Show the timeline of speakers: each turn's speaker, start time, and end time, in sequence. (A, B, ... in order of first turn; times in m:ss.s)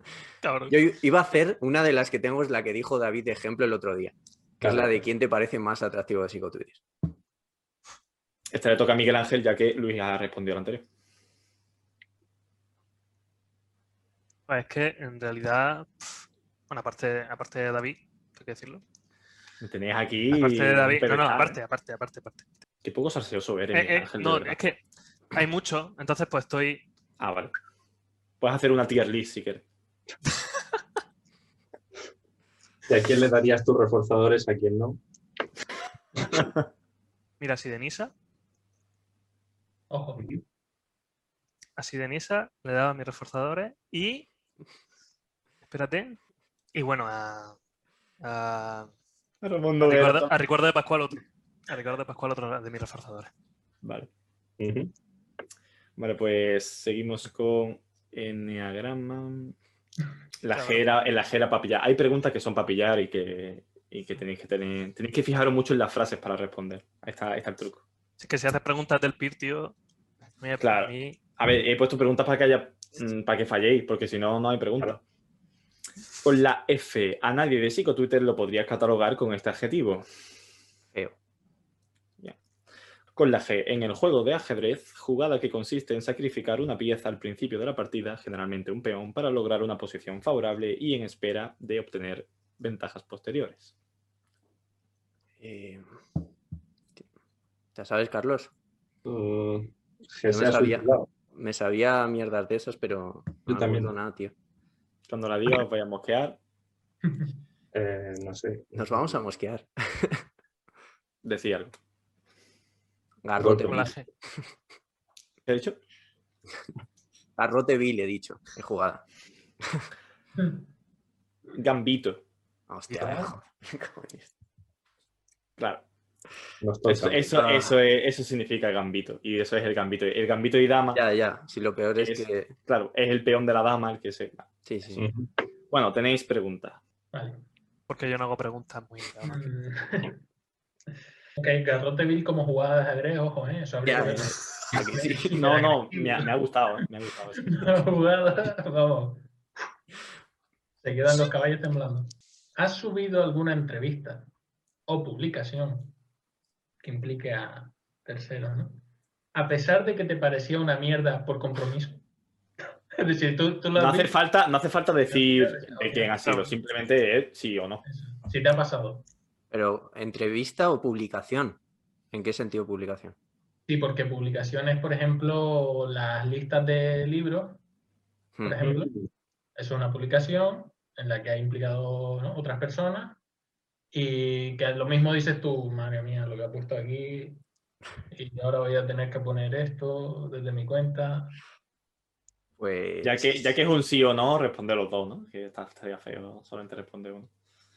0:00.4-0:00.7 A
0:00.7-0:06.8 B
0:04.6-0:05.0 C
0:08.5-0:10.8 D
0:14.5-0:18.8 A
0:19.6-0:21.6 D
0:20.3-0:22.4 A
0:22.8-0:24.6 D
0:23.7-0:24.8 A
0:25.3-0:26.8 A
0:27.2-0:27.5 D
0:28.4-0:29.6 D
0:32.9-0:35.0 C
0:37.4-0:38.1 A
0:39.9-0:40.3 E
0:41.8-0:44.3 A
0:45.7-0:46.2 A
0:46.7-0:47.6 A
0:48.2-0:48.9 A
0:49.4-0:50.3 D
0:49.8-0:53.3 A
0:53.8-0:54.1 D
0:54.6-0:54.9 C
0:56.0-0:59.6 D
1:00.4-1:07.8 D
1:00.5-1:00.8 A
1:08.2-1:09.7 A
1:10.4-1:11.2 A
1:10.6-1:15.0 D
1:16.2-1:20.1 D
1:23.2-1:33.7 D
1:35.4-1:35.8 B
1:37.7-1:38.5 B
1:39.0-1:41.1 C
1:40.3-1:44.3 B
1:43.5-1:44.0 C
1:45.1-1:46.4 D
1:47.7-1:49.0 C
1:48.8-1:50.2 B
1:51.2-1:51.7 D
1:53.2-1:53.9 B
1:53.4-1:53.9 C
1:53.7-1:54.0 A
1:55.4-1:55.8 D
1:57.4-1:59.0 B
2:01.5-2:02.2 D
2:02.7-2:04.3 B
2:05.6-2:05.8 D
2:06.6-2:07.3 C
2:06.9-2:11.0 D
2:07.3-2:07.8 B
2:10.9-2:12.5 B
2:12.0-2:14.5 D
2:14.6-2:15.0 B
2:14.9-2:15.3 C
2:15.7-2:16.8 D
2:17.1-2:17.4 E
2:17.9-2:19.5 A
2:19.2-2:20.2 E
2:21.4-2:26.4 E
2:23.8-2:25.6 B
2:25.3-2:27.8 D
2:27.5-2:29.3 E
2:30.8-2:34.3 E
2:34.9-2:36.0 E
2:36.8-2:38.8 E
2:39.3-2:42.0 E
2:42.9-2:44.1 E
2:43.7-2:47.8 D
2:45.1-2:46.1 E
2:46.2-2:46.5 A
2:47.8-2:49.0 E
2:49.5-2:51.6 B
2:52.1-2:53.1 B
2:53.7-2:57.6 E
2:58.4-2:58.9 E
2:58.6-2:59.1 C
2:59.6-3:03.2 E
3:03.9-3:07.4 E
3:08.1-3:11.4 E
3:12.6-3:13.4 B
3:13.0-3:17.3 D